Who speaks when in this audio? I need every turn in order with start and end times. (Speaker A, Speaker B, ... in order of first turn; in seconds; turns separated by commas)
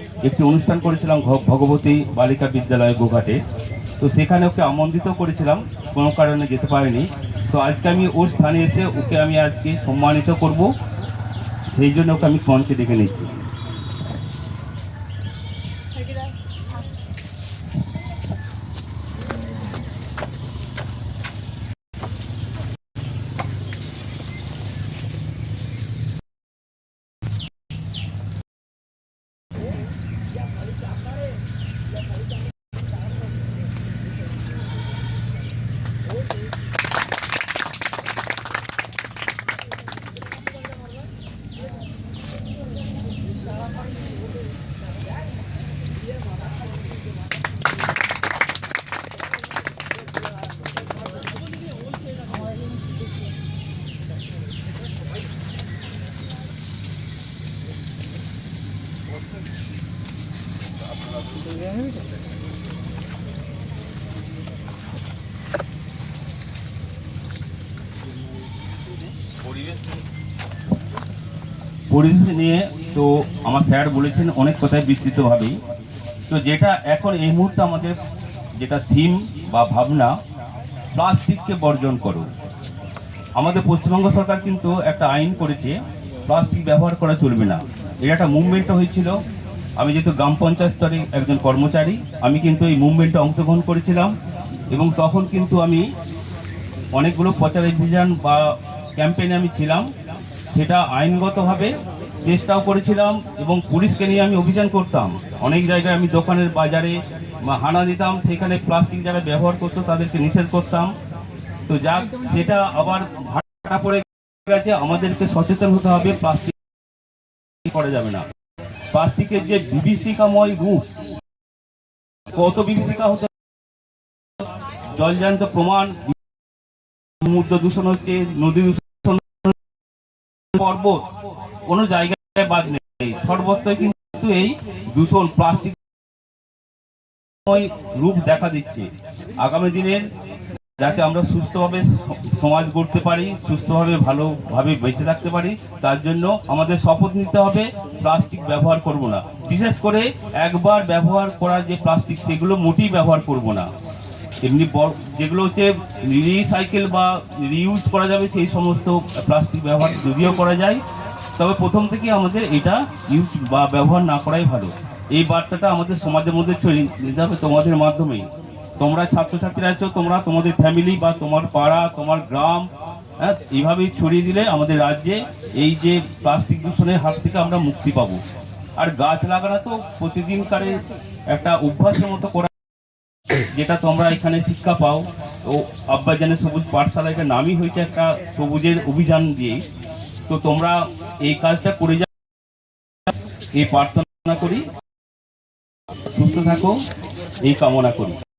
Speaker A: 0.2-3.4, Speaker A: 4.0-10.7, Speaker A: 11.7-13.3, Speaker A: 71.9-75.5, Speaker A: 76.3-78.0, Speaker A: 78.6-80.1, Speaker A: 80.9-82.3, Speaker A: 83.4-85.7, Speaker A: 86.3-89.1, Speaker A: 89.8-94.1, Speaker A: 94.7-95.8, Speaker A: 97.0-98.4, Speaker A: 99.0-99.8, Speaker A: 100.5-101.7, Speaker A: 102.2-106.9, Speaker A: 107.5-110.9, Speaker A: 111.7-116.5, Speaker A: 117.7-118.2, Speaker A: 118.9-120.8, Speaker A: 122.3-123.3, Speaker A: 124.9-126.2, Speaker A: 127.2-129.5, Speaker A: 130.6-131.0, Speaker A: 131.7-135.8, Speaker A: 137.4-138.9, Speaker A: 139.4-140.0, Speaker A: 140.8-153.7, Speaker A: 154.4-160.8, Speaker A: 161.4-168.3, Speaker A: 168.8-172.7, Speaker A: 173.2-178.2, Speaker A: 178.8-180.8, Speaker A: 181.3-182.5, Speaker A: 183.5-189.6, Speaker A: 190.3-192.1, Speaker A: 193.5-194.6, Speaker A: 196.1-196.7, Speaker A: 197.4-198.2